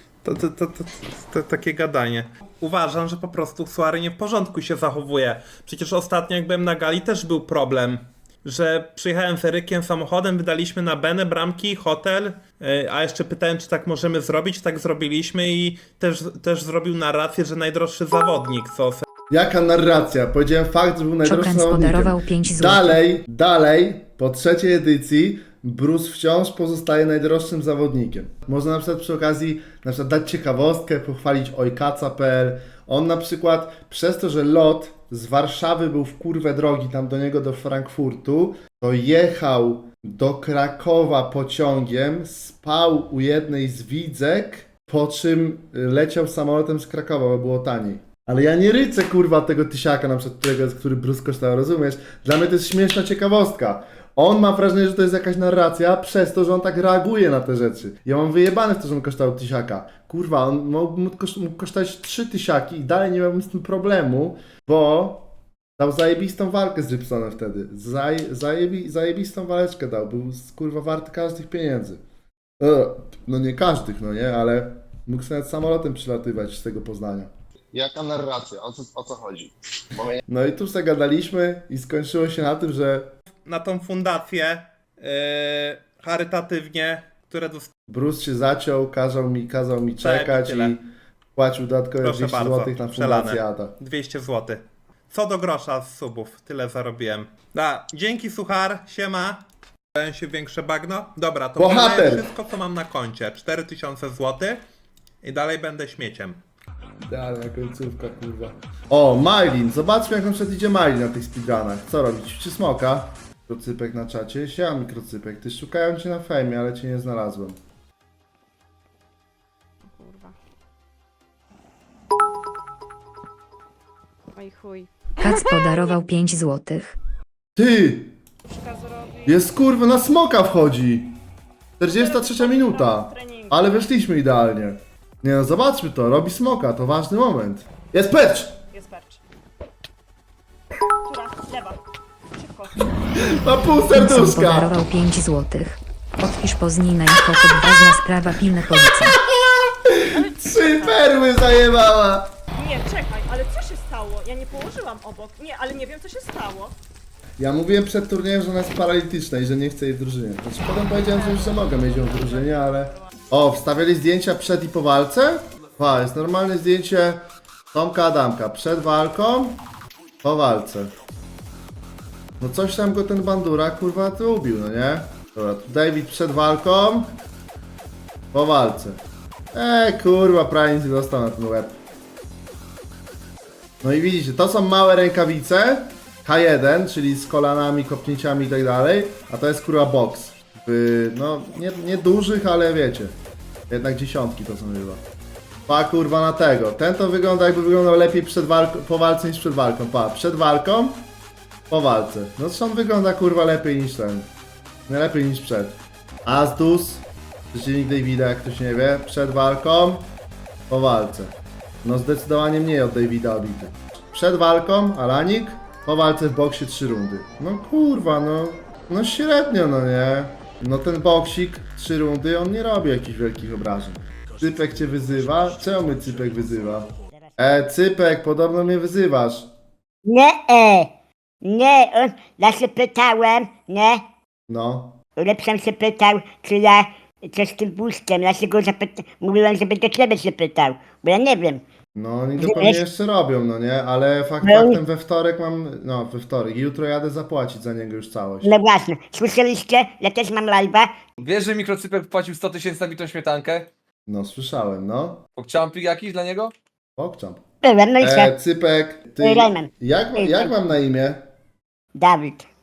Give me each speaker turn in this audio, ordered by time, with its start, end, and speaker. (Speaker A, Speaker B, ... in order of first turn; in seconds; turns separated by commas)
Speaker A: 0.2-19.0, Speaker B: 19.3-72.0, Speaker C: 21.2-23.0, Speaker B: 72.6-77.3, Speaker D: 77.7-80.2, Speaker B: 80.3-83.1, Speaker A: 83.4-87.7, Speaker B: 87.9-90.8, Speaker A: 90.0-90.8, Speaker B: 91.3-93.7, Speaker A: 92.0-104.6, Speaker B: 101.6-102.3, Speaker A: 105.2-106.4, Speaker B: 107.1-117.6, Speaker E: 119.8-120.3, Speaker E: 124.3-125.8, Speaker C: 125.2-126.9, Speaker B: 127.5-128.2, Speaker F: 128.5-129.3, Speaker B: 129.2-131.1, Speaker B: 131.8-138.6, Speaker F: 131.9-133.6, Speaker F: 138.7-139.2, Speaker F: 141.0-141.8, Speaker F: 142.3-143.0, Speaker B: 143.1-144.8, Speaker C: 143.9-149.1, Speaker B: 149.7-152.3, Speaker F: 150.1-151.0, Speaker F: 152.6-156.7, Speaker B: 157.4-169.6, Speaker F: 161.1-163.0, Speaker B: 170.2-170.9, Speaker B: 172.4-177.1, Speaker B: 178.3-179.0, Speaker B: 179.5-181.8, Speaker B: 183.8-193.2, Speaker B: 193.7-195.0, Speaker B: 195.7-201.1, Speaker B: 201.7-204.3, Speaker B: 204.9-210.1, Speaker B: 210.7-211.3, Speaker B: 211.8-229.5, Speaker G: 230.0-230.9, Speaker G: 231.4-234.0, Speaker B: 234.5-235.0, Speaker G: 235.2-241.6, Speaker B: 241.9-248.5, Speaker G: 242.4-242.8, Speaker G: 244.4-244.8, Speaker G: 248.4-250.9, Speaker H: 251.2-253.7, Speaker B: 254.1-255.2, Speaker H: 255.3-256.5, Speaker B: 257.0-257.4, Speaker G: 257.6-258.3, Speaker B: 258.0-261.2, Speaker G: 259.2-260.5, Speaker G: 261.9-262.4